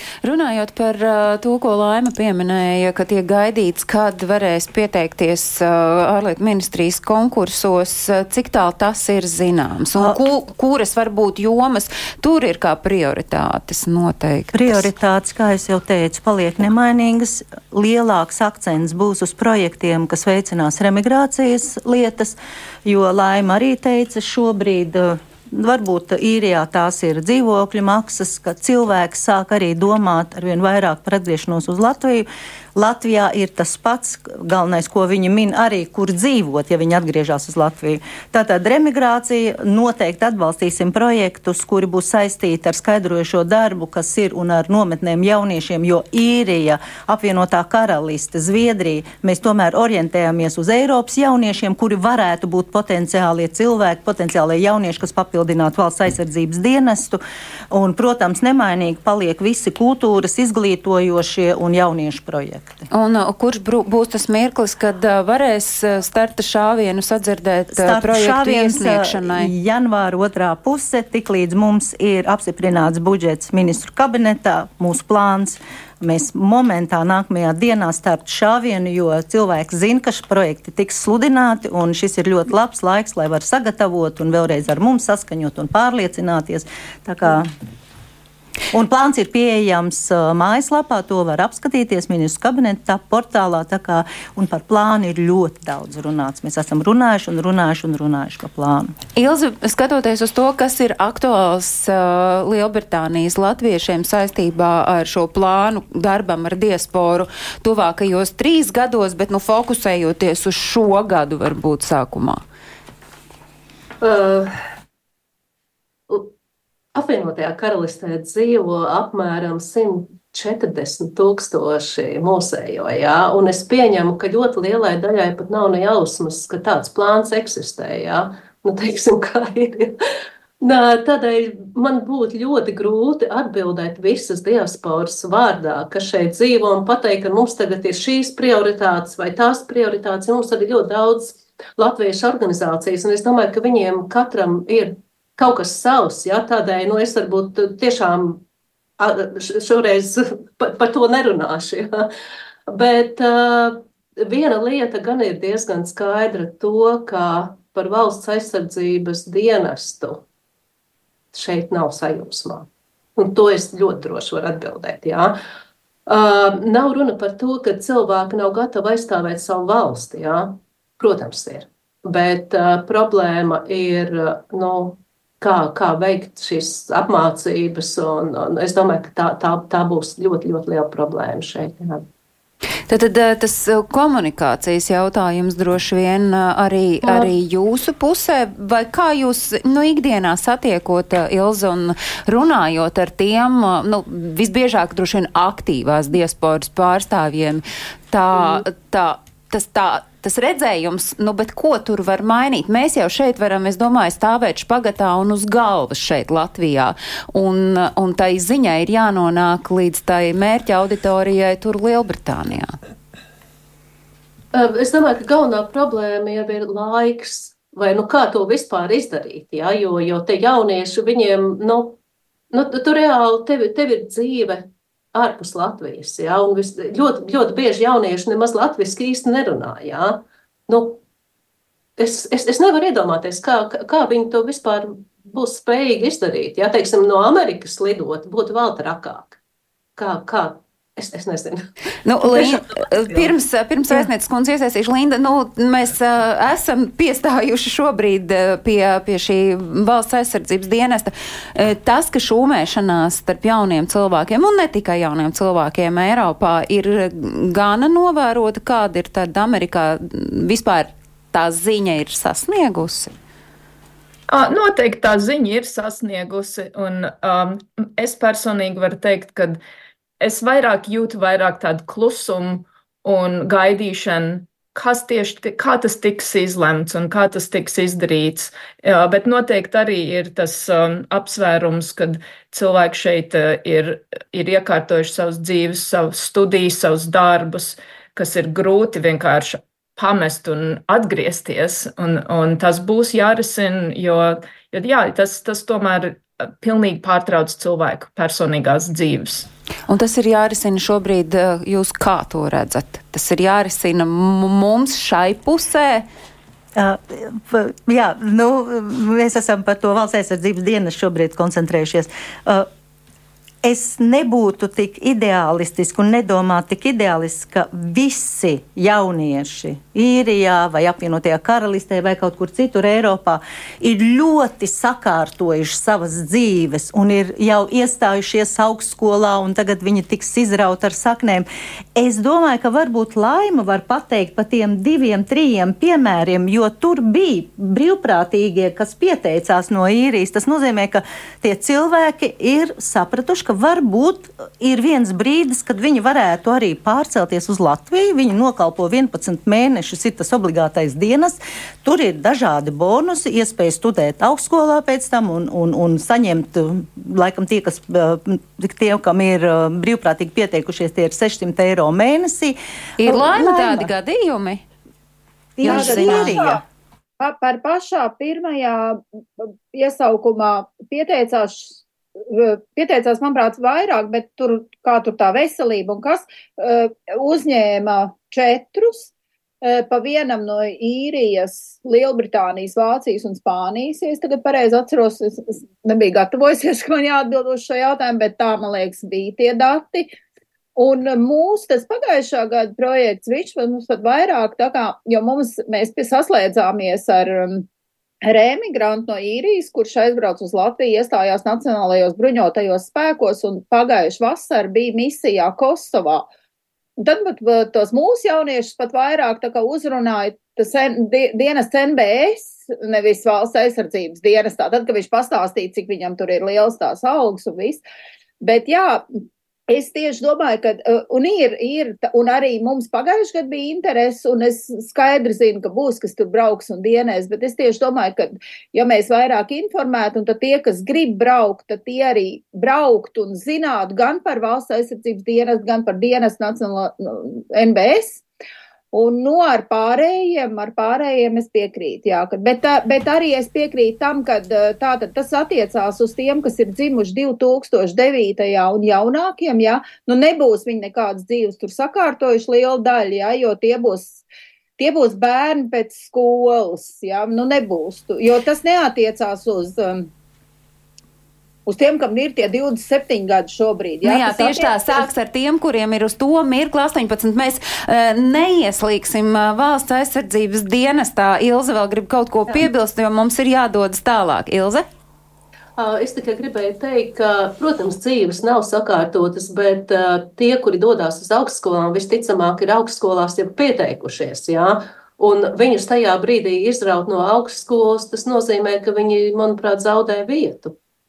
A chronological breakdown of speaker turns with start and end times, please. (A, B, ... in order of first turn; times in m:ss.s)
0:00.2-0:14.8 A
0:14.5-1:02.8 B
1:02.9-1:09.5 A
1:07.7-1:27.5 B
1:28.7-1:38.9 B
1:39.2-1:52.4 A
1:54.0-1:54.6 C
1:56.9-2:10.0 C
2:10.6-2:28.4 C
2:29.0-2:32.1 C
2:32.7-2:40.2 C
2:41.3-2:45.4 C
2:46.0-3:02.1 C
3:02.9-3:32.8 A
3:07.0-3:07.3 C
3:34.5-3:42.0 C
3:42.5-3:51.0 C
3:52.0-3:59.4 C
4:00.0-4:03.3 C
4:02.0-4:23.1 A
4:24.3-4:29.6 D
4:30.2-4:59.5 D
4:59.9-5:06.1 A
5:06.8-5:12.7 B
5:13.6-6:03.9 B
6:03.0-6:04.6 A
6:05.6-6:06.6 B
6:05.6-6:06.5 A
6:05.7-6:06.6 E
6:07.2-6:19.1 E
6:19.6-6:30.1 E
6:30.8-6:37.6 E
6:38.2-6:46.2 E
6:47.0-6:57.8 E
6:58.4-6:59.0 E
6:59.7-7:18.2 E
7:18.9-7:34.2 E
7:34.8-7:40.1 E
7:41.6-7:45.0 E
7:44.0-7:54.8 A
7:55.8-8:10.8 C